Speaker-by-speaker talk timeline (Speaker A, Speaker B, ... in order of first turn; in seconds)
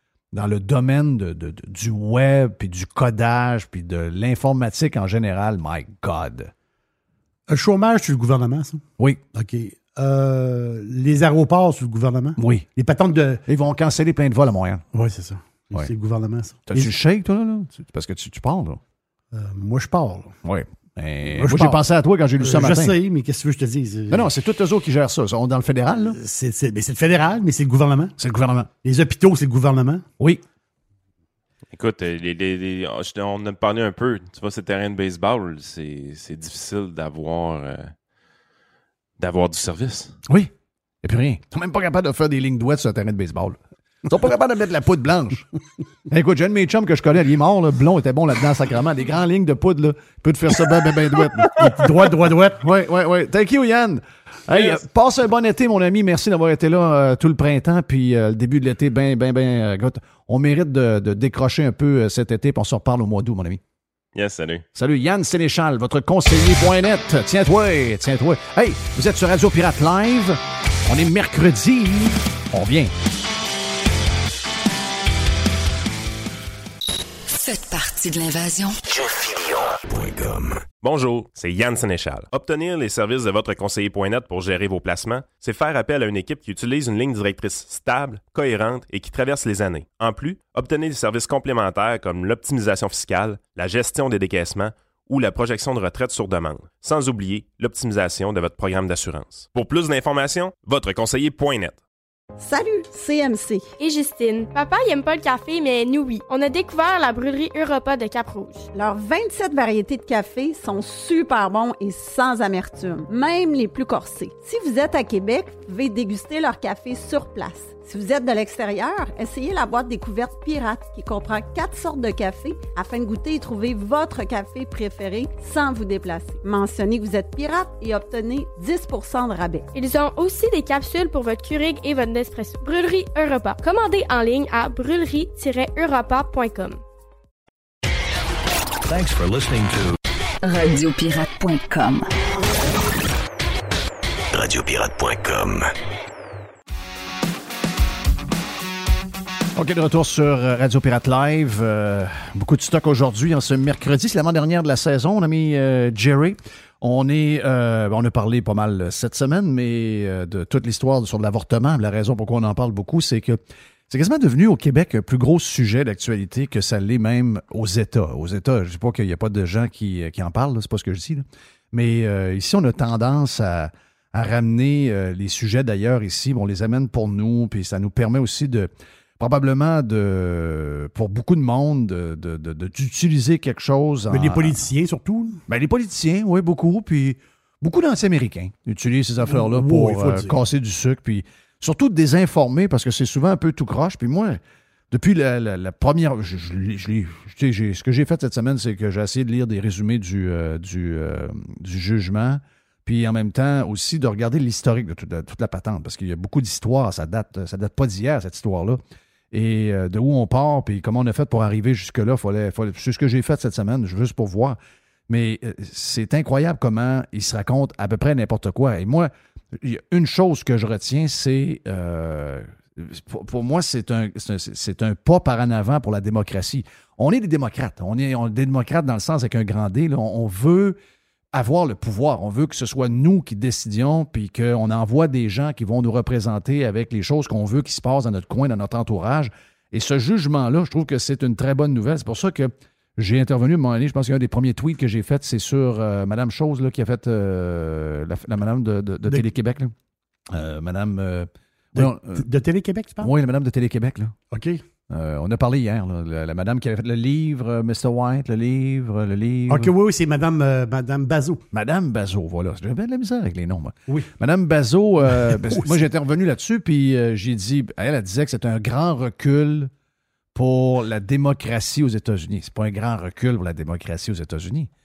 Speaker A: 0.3-6.5, 12.4-12.7, 13.5-14.8, 16.7-18.8, 20.4-23.0, 24.1-26.2, 28.2-28.7, 40.2-40.5, 41.0-45.5, 46.1-51.8, 52.6-63.6, 64.7-72.9, 149.6-184.6, 185.5-194.4, 194.9-208.8, 209.3-214.6, 215.1-230.8, 231.3-249.7, 250.3-252.2, 253.0-254.2, 254.9-259.7, 261.5-269.7, 270.3-274.7
Speaker B: 7.5-13.4, 14.9-16.9, 19.3-20.4, 21.2-21.8, 22.4-24.3, 26.0-28.1, 28.8-30.1, 51.5-52.6, 184.1-185.4, 189.2-190.3, 251.7-253.1, 254.3-254.6, 259.5-261.4, 265.1-265.8
Speaker C: 31.7-37.9, 39.2-40.1, 64.1-64.6, 80.8-101.8
Speaker D: 77.3-78.7, 140.4-142.1
Speaker E: 78.8-80.6, 144.3-145.7
Speaker F: 102.4-103.7, 108.7-129.7
Speaker G: 103.8-108.7, 129.7-136.8